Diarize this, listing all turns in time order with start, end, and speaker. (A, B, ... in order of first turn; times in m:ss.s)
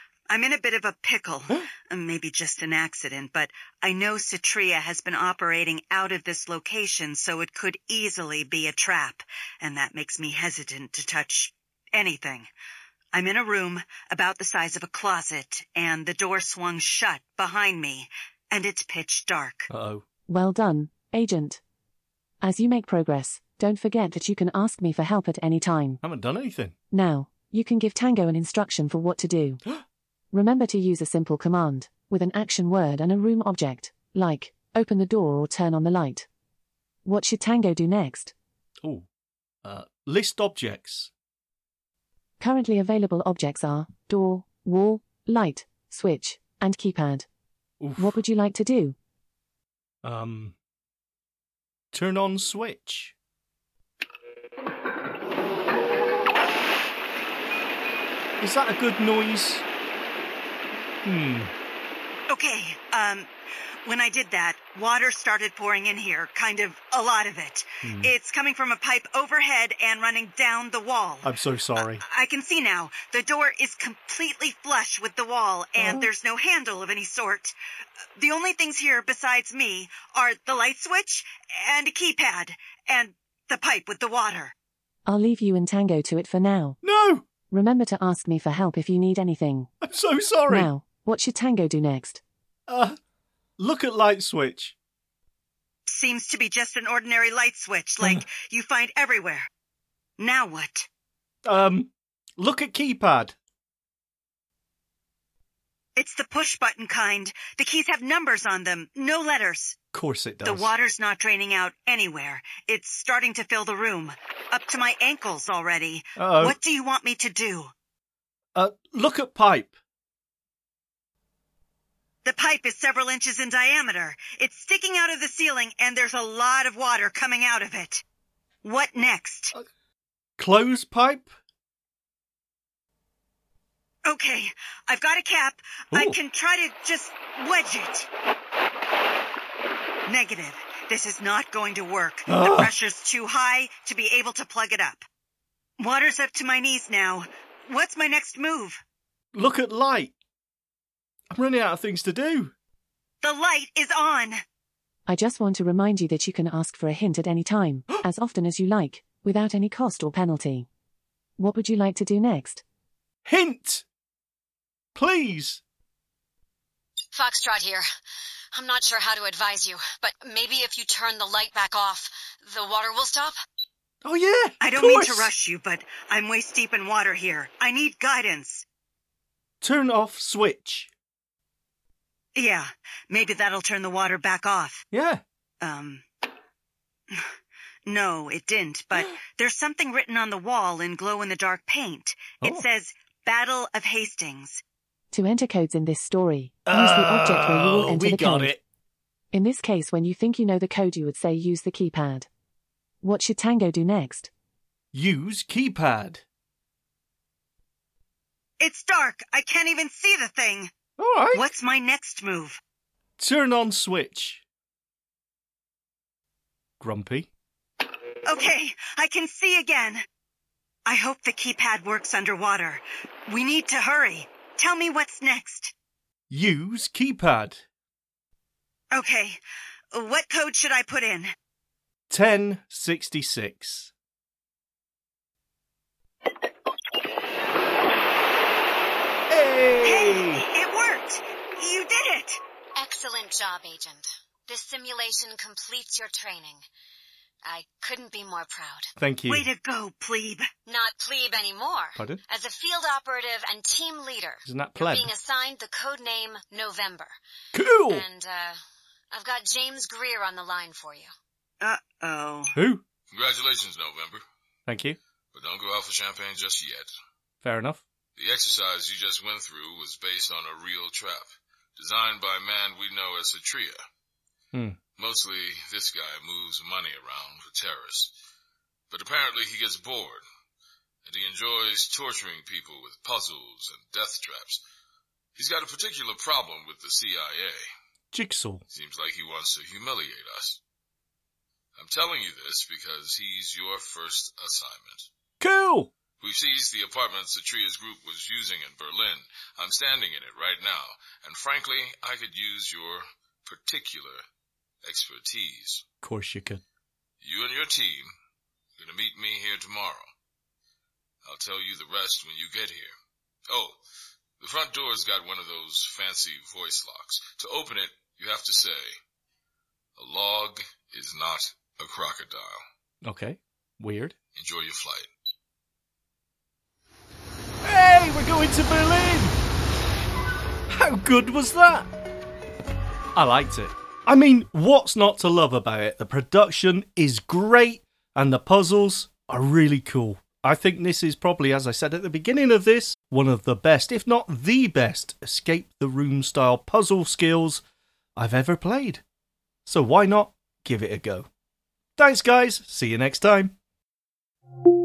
0:00.3-0:12.5 A
0:13.1-0:19.7 A
0:19.7-0:20.0 B
0:20.3-0:21.6 C
0:22.4-0:26.0 C
0:26.0-0:26.8 B
0:26.9-0:29.6 C
0:30.3-0:36.3 C
0:37.0-0:38.3 C
0:39.6-0:41.1 B
0:42.4-0:47.3 C
0:47.8-0:48.2 B
0:48.0-0:49.0 C
0:50.0-0:50.6 B
0:51.9-0:53.2 B
0:58.4-0:59.6 B
1:01.0-1:01.5 B
1:02.3-1:03.3 A
1:03.8-1:11.3 A
1:07.8-1:08.1 B
1:11.2-1:12.0 B
1:11.8-1:17.6 A
1:15.8-1:16.1 B
1:18.2-1:24.5 A
1:25.1-1:26.8 C
1:26.8-1:27.2 B
1:27.5-1:29.7 C
1:29.8-1:30.7 B
1:30.5-1:32.2 C
1:32.7-1:33.0 B
1:33.6-1:34.8 B
1:35.9-1:39.5 A
1:40.2-1:40.9 A
1:41.4-1:43.4 B
1:46.0-1:49.8 A
1:49.9-1:50.7 B
1:50.4-1:57.7 A
1:56.2-1:56.6 B
1:58.6-1:59.7 B
2:02.2-2:08.0 A
2:08.6-2:09.5 A
2:10.4-2:11.3 B
2:14.0-2:18.1 A
2:15.9-2:16.2 B
2:20.1-2:25.0 A
2:22.3-2:22.7 B
2:25.8-2:28.8 A
2:29.4-2:30.1 B
2:31.3-2:32.5 B
2:33.2-2:34.4 A
2:35.1-2:40.7 C
2:41.4-2:42.6 C
2:43.3-2:43.9 B
2:45.0-2:45.6 B
2:47.1-2:47.8 D
2:48.5-2:53.4 D
2:54.0-2:55.3 B
2:54.6-2:58.6 A
2:59.6-3:00.9 B
3:02.4-3:04.8 A
3:04.9-3:05.2 B
3:05.6-3:06.0 A
3:07.9-3:14.6 A
3:15.1-3:18.5 C
3:16.7-3:18.6 B
3:19.3-3:22.3 C
3:23.0-3:24.3 C
3:24.9-3:26.2 B
3:28.6-3:30.7 A
3:31.0-3:31.4 B
3:31.3-3:32.6 A
3:33.2-3:34.4 B
3:36.8-3:37.3 B
3:38.2-3:40.0 A
3:40.9-3:45.7 A
3:46.3-3:47.7 B
3:48.9-3:49.4 A
3:49.9-3:51.3 A
3:52.1-3:53.9 B
3:59.3-4:00.4 B
3:59.8-4:02.4 A
4:02.8-4:06.6 D
4:07.5-4:08.9 D
4:09.0-4:09.5 B
4:09.3-4:10.5 A
4:10.7-4:17.1 D
4:14.4-4:15.1 B
4:17.5-4:18.0 B
4:17.9-4:18.6 D
4:19.1-4:21.1 D
4:21.6-4:22.5 A
4:22.5-4:22.8 B
4:23.1-4:24.2 E
4:24.7-4:25.0 B
4:25.3-4:26.9 E
4:27.4-4:27.8 B
4:28.2-4:33.8 E
4:34.5-4:34.8 B
4:35.0-4:38.1 E
4:38.9-4:40.2 E
4:41.1-4:44.6 E
4:45.4-4:47.6 E
4:48.1-4:48.6 B
4:48.7-4:50.6 E
4:51.8-4:55.1 E
4:55.4-4:55.9 B
4:56.2-5:04.2 E
5:04.8-5:05.8 E
5:06.0-5:06.6 B
5:07.2-5:08.1 E
5:08.8-5:10.0 E
5:11.2-5:12.9 E
5:13.5-5:13.8 E
5:14.4-5:19.0 E
5:20.0-5:22.6 E
5:23.0-5:24.2 B
5:24.4-5:25.1 E
5:27.6-5:29.4 B
5:30.7-5:31.9 B
5:33.2-5:47.6 B
5:48.2-5:49.0 B
5:49.7-5:51.3 B
5:52.0-5:53.6 B